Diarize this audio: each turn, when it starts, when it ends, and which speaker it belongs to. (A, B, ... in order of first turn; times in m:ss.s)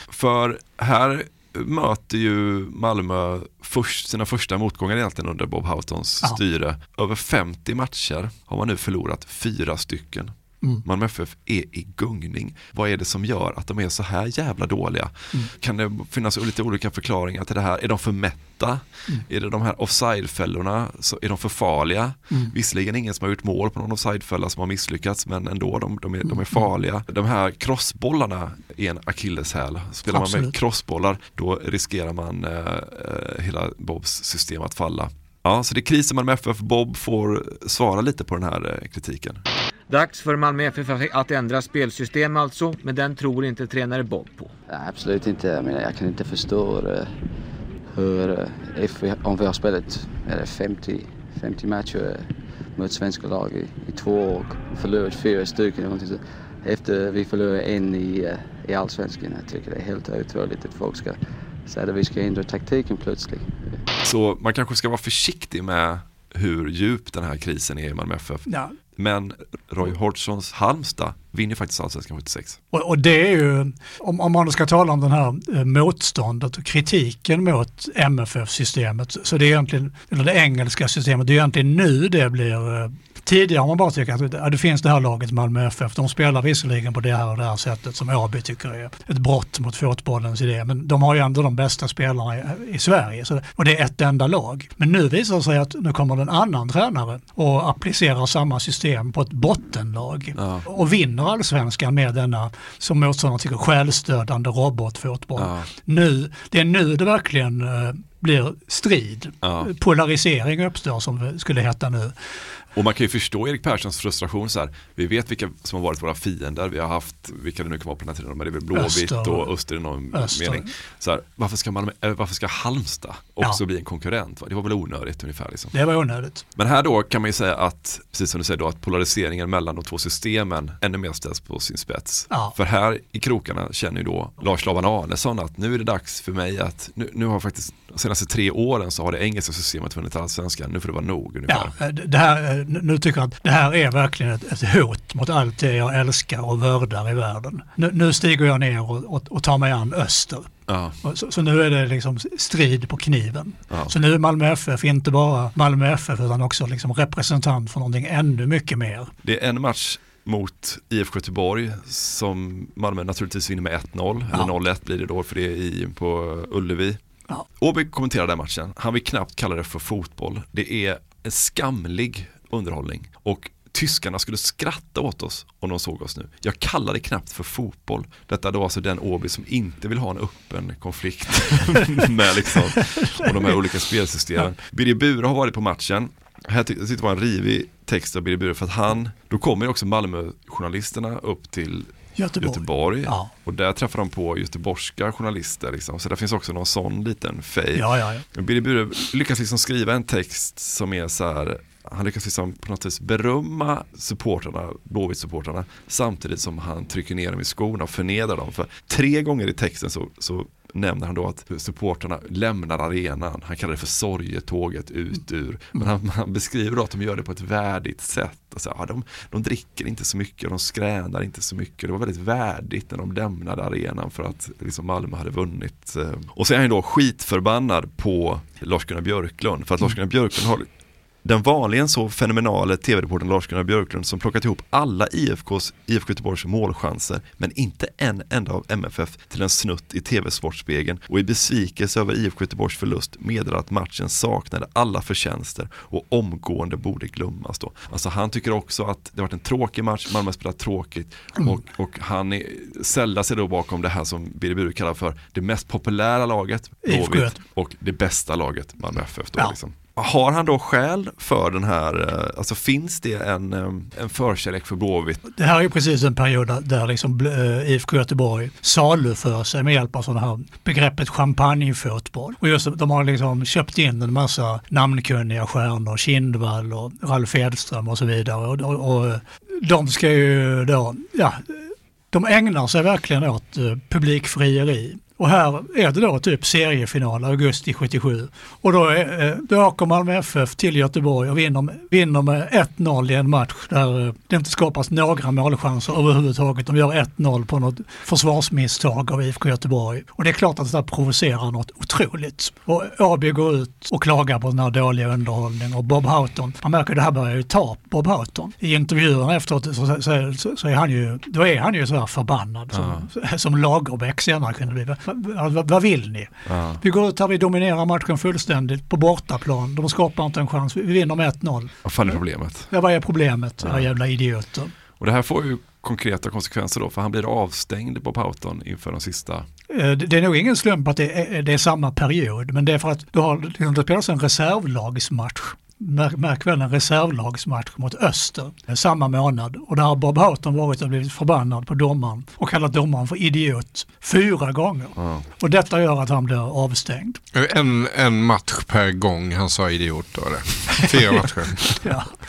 0:00.1-0:10.3 A
0:10.8-0:39.4 A
0:26.3-0:26.6 B
0:30.1-0:30.6 B
0:39.9-0:44.5 C
0:44.7-0:47.2 D
0:47.9-1:03.8 D
1:04.0-1:12.6 A
1:08.5-1:08.7 B
1:12.7-1:52.2 B
1:40.4-1:40.6 A
1:45.4-1:45.7 A
1:49.4-1:49.7 A
1:52.8-2:05.7 A
1:58.7-1:59.5 B
2:00.1-2:00.6 B
2:05.7-2:06.4 B
2:06.6-2:21.7 A
2:12.3-2:12.5 B
2:21.5-2:39.1 B
2:30.7-2:31.0 A
2:39.2-2:47.0 A
2:47.6-3:50.6 A
3:02.8-3:03.5 B
3:12.2-3:13.3 B
3:17.8-3:18.2 B
3:51.2-4:25.2 A
4:16.8-4:17.4 B
4:25.4-5:22.2 B
5:12.7-5:13.0 A
5:16.4-5:16.8 A
5:21.8-5:22.7 A
5:22.7-5:24.7 B
5:23.6-5:23.9 A
5:25.0-5:29.4 A
5:29.7-5:47.2 B
5:45.0-5:45.2 A
5:47.3-5:51.7 E
5:51.8-5:52.1 B